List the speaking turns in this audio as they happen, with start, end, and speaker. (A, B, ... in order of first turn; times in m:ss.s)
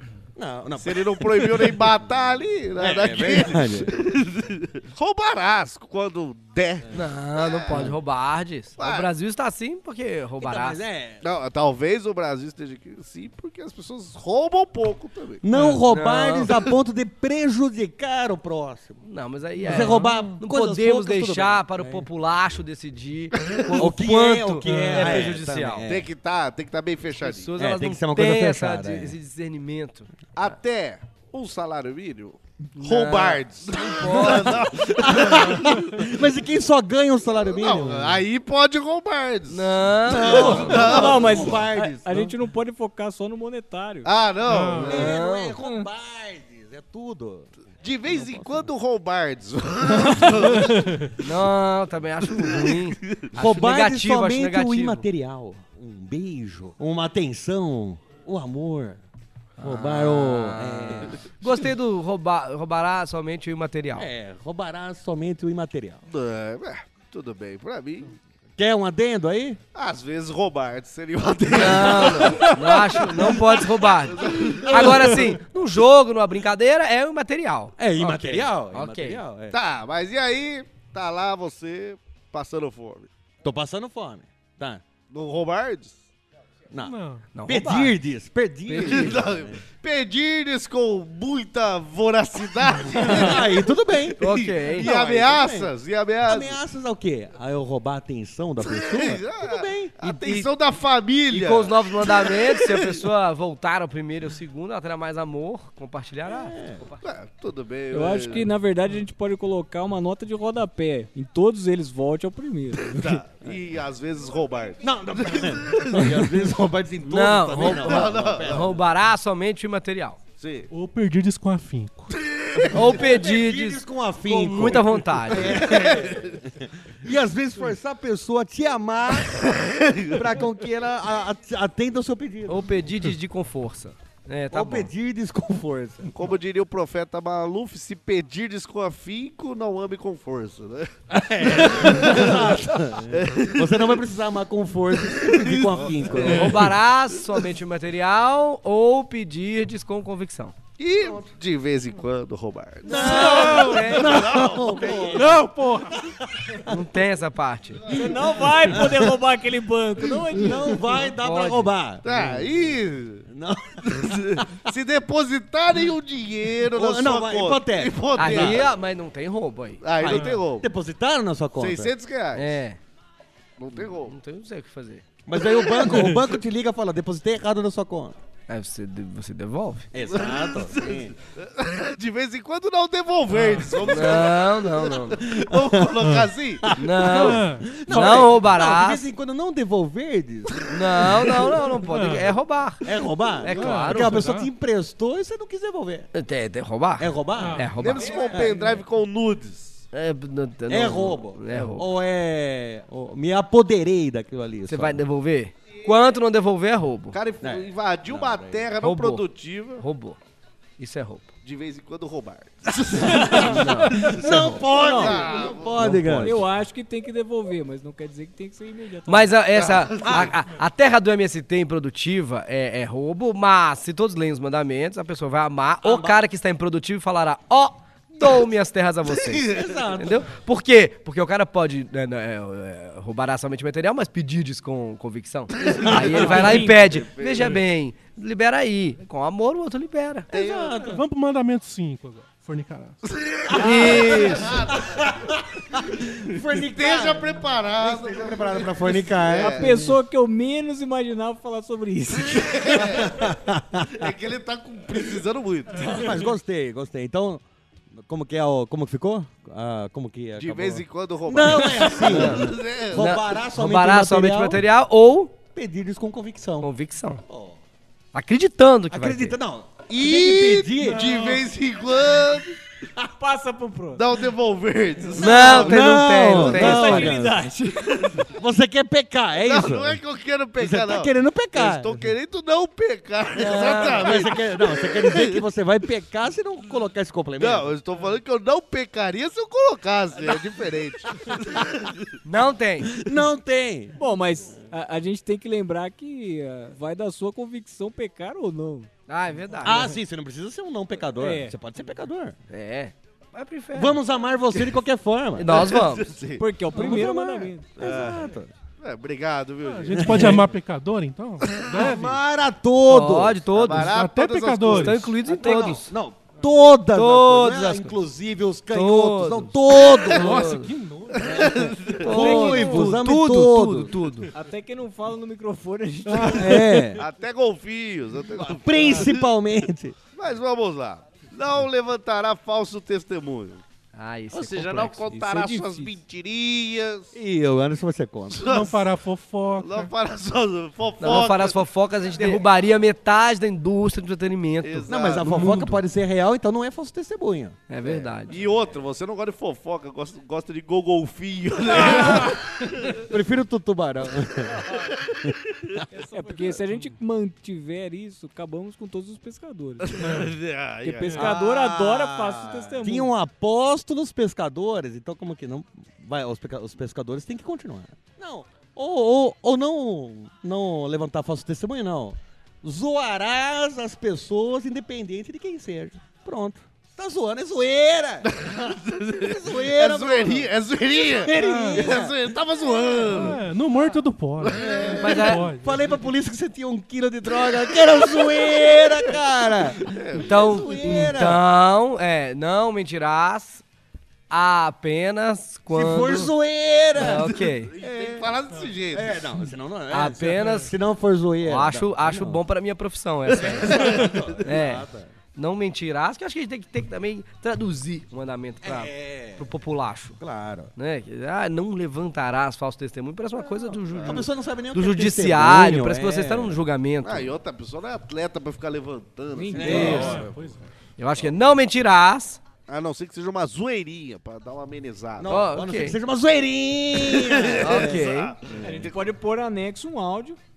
0:00.4-0:04.0 A
0:00.8-0:07.9 B
0:06.9-0:10.8 C
0:08.8-0:09.1 B
0:10.4-0:11.2 A
0:11.2-0:15.4 B
0:15.4-0:19.0 A
0:15.5-0:15.8 D
0:15.9-0:16.5 C
0:19.0-0:25.8 C
0:19.6-0:22.1 A
0:19.7-0:20.3 D
0:23.6-0:26.1 A
0:24.6-0:25.3 D
0:25.8-0:27.5 B
0:27.2-0:30.1 C
0:27.6-0:29.2 A
0:30.4-0:35.6 B
0:32.8-0:34.7 C
0:34.0-0:38.1 A
0:35.4-0:35.8 D
0:37.5-0:41.6 B
0:39.5-0:41.1 C
0:40.0-0:42.3 A
0:40.9-0:44.1 E
0:44.0-0:45.1 B
0:44.4-0:45.0 D
0:44.8-0:47.5 A
0:44.9-0:45.6 C
0:47.8-0:50.8 B
0:48.1-0:48.7 A
0:50.6-0:51.1 D
0:51.2-0:55.0 C
0:52.4-0:53.3 B
0:53.3-0:59.0 A
0:59.6-1:04.1 C
0:59.6-1:01.2 A
1:03.9-1:06.0 A
1:06.1-1:08.2 B
1:08.6-1:09.6 A
1:09.7-1:15.3 B
1:11.5-1:19.2 C
1:14.8-1:15.1 A
1:17.8-1:19.6 A
1:19.5-1:23.1 B
1:23.4-1:24.8 A
1:25.1-1:26.0 B
1:26.7-1:29.6 A
1:26.8-1:27.3 D
1:27.3-1:27.9 C
1:28.7-1:29.3 C
1:28.8-1:36.6 B
1:33.0-1:39.9 A
1:34.2-1:34.9 C
1:38.6-1:43.0 B
1:40.0-1:40.5 C
1:41.3-1:47.0 C
1:46.2-1:46.8 A
1:47.0-1:48.5 B
1:47.9-1:53.2 E
1:52.9-1:56.5 B
1:54.8-1:58.8 A
1:57.0-2:00.2 C
1:57.6-1:58.8 B
2:00.4-2:00.7 B
2:00.7-2:02.1 D
2:02.2-2:02.8 B
2:02.7-2:05.8 C
2:02.8-2:09.4 A
2:05.3-2:06.4 B
2:09.2-2:10.3 B
2:10.1-2:12.7 A
2:12.5-2:14.9 C
2:14.5-2:16.1 A
2:16.1-2:24.0 B
2:21.1-2:26.6 A
2:25.1-2:26.7 B
2:26.2-2:30.6 C
2:30.8-2:35.2 B
2:31.0-2:31.2 A
2:32.8-2:36.8 A
2:32.8-2:34.2 C
2:33.4-2:33.8 D
2:35.1-2:36.1 D
2:36.6-2:37.8 C
2:37.9-2:41.0 E
2:38.7-2:39.2 A
2:40.1-2:42.7 A
2:41.2-2:41.7 C
2:42.0-2:43.3 B
2:43.3-2:44.4 A
2:43.8-2:48.7 B
2:46.7-2:48.6 A
2:48.2-2:49.8 C
2:49.8-2:50.7 B
2:50.0-2:51.9 A
2:51.6-2:52.6 B
2:52.3-2:52.8 C
2:53.6-2:54.1 B
2:53.8-2:55.0 C
2:55.2-2:58.2 A
2:55.6-2:56.1 B
2:58.5-2:59.9 C
2:59.9-3:01.1 A
3:00.1-3:06.7 B
3:03.3-3:03.8 D
3:03.9-3:05.2 C
3:05.4-3:05.8 A
3:06.6-3:10.7 A
3:06.8-3:09.0 C
3:07.1-3:08.3 D
3:10.7-3:14.3 C
3:11.8-3:12.3 D
3:12.8-3:16.1 A
3:13.5-3:14.5 D
3:16.1-3:18.1 C
3:17.0-3:18.7 A
3:17.4-3:17.7 D
3:17.8-3:19.8 B
3:19.9-3:21.9 C
3:20.7-3:25.0 A
3:24.7-3:27.2 C
3:27.1-3:29.8 B
3:27.4-3:28.7 A
3:28.8-3:29.2 C
3:29.8-3:30.2 C
3:30.8-3:31.3 C
3:31.4-3:36.3 B
3:33.0-3:36.5 A
3:33.2-3:34.6 C
3:34.7-3:35.2 E
3:35.8-3:36.3 C
3:36.2-3:39.4 E
3:39.1-4:00.3 C
3:39.5-3:40.3 B
3:40.0-3:40.3 A
3:45.8-3:46.2 A
3:49.3-3:49.8 B
3:49.4-3:50.3 A
3:55.6-3:57.6 B
3:55.8-3:56.6 A
3:55.9-3:56.9 E
4:00.3-4:01.0 A
4:00.3-4:00.9 B
4:00.8-4:03.0 D
4:03.1-4:05.1 B
4:03.5-4:04.5 C
4:03.8-4:10.0 A
4:06.6-4:09.8 B
4:09.4-4:12.7 E
4:12.3-4:13.3 B
4:12.7-4:14.1 A
4:13.8-4:16.0 B
4:15.8-4:24.6 A
4:20.4-4:23.1 B
4:22.0-4:25.3 C
4:25.5-4:26.7 A
4:26.6-4:27.2 C
4:27.2-4:27.6 A
4:28.1-4:29.4 C
4:28.9-4:31.3 A
4:29.9-4:32.6 B
4:33.0-4:34.0 E
4:33.9-4:35.9 B
4:35.2-4:37.2 C
4:35.2-4:37.5 A
4:36.3-4:38.0 E
4:37.8-4:38.3 B
4:38.2-4:40.0 A
4:39.4-4:45.4 B
4:40.6-4:42.1 A
4:43.4-4:44.2 C
4:43.4-4:47.7 A
4:47.4-4:52.1 B
4:52.2-4:52.9 C
4:53.0-4:54.0 A
4:54.0-4:58.9 E
4:59.1-5:00.0 C
4:59.6-5:02.4 A
5:01.2-5:01.5 E
5:02.5-5:04.0 C
5:03.7-5:05.5 A
5:05.4-5:06.1 C
5:05.4-5:06.5 B
5:06.4-5:07.7 E
5:06.7-5:08.5 A
5:07.8-5:10.4 B
5:09.6-5:12.2 D
5:09.9-5:10.4 A
5:11.4-5:11.9 B
5:11.7-5:13.4 A
5:12.9-5:13.9 C
5:13.5-5:15.1 B
5:13.7-5:15.2 D
5:14.6-5:15.9 C
5:15.2-5:20.4 A
5:15.4-5:15.8 E
5:16.9-5:18.0 C
5:18.7-5:20.7 C
5:20.1-5:21.4 D
5:21.2-5:22.6 B
5:21.3-5:23.9 A
5:22.0-5:24.3 C
5:24.3-5:26.8 E
5:26.2-5:26.8 D
5:26.2-5:27.0 A
5:27.0-5:29.3 B
5:28.4-5:30.0 A
5:30.1-5:33.6 B
5:33.9-5:35.0 C
5:34.3-5:37.1 B
5:35.1-5:36.0 E
5:37.1-5:38.4 A
5:38.3-5:38.9 B
5:38.4-5:39.9 D
5:39.6-5:41.6 B
5:41.0-5:44.9 C
5:42.1-5:42.4 B
5:44.6-5:45.7 B
5:44.9-5:48.1 A
5:47.7-5:48.4 C
5:48.3-5:53.0 B
5:51.7-5:52.3 A
5:52.9-5:54.6 A
5:54.7-5:55.8 B
5:55.9-6:00.2 E
5:59.8-6:01.4 B
6:00.0-6:00.3 D
6:00.8-6:03.1 E
6:01.1-6:18.3 A
6:02.4-6:02.7 B
6:18.2-6:23.4 B
6:19.2-6:20.5 A
6:21.2-6:22.1 A
6:21.3-6:21.9 D
6:23.1-6:25.8 D
6:24.4-6:25.3 B
6:25.0-6:25.4 C
6:25.1-6:31.4 A
6:27.8-6:29.1 B
6:29.8-6:30.6 B
6:30.2-6:33.6 C
6:34.3-6:36.3 C
6:35.7-6:38.2 A
6:36.9-6:37.7 C
6:37.1-6:39.2 B
6:38.9-6:42.4 A
6:39.9-6:40.7 C
6:41.4-6:50.2 C
6:43.3-6:44.4 B
6:43.4-6:45.1 A
6:48.6-6:49.5 A
6:50.2-6:50.7 A
6:50.8-6:57.4 C
6:53.4-6:56.6 A
6:53.9-6:54.2 B
6:57.0-7:00.3 B
6:59.3-7:00.2 E
6:59.5-7:00.3 A
6:59.7-7:00.0 C
6:59.7-7:00.6 D
7:01.0-7:02.4 C
7:02.7-7:05.4 B
7:05.2-7:08.1 A
7:05.2-7:06.0 C
7:07.0-7:09.0 B
7:07.6-7:08.3 C
7:08.6-7:10.4 E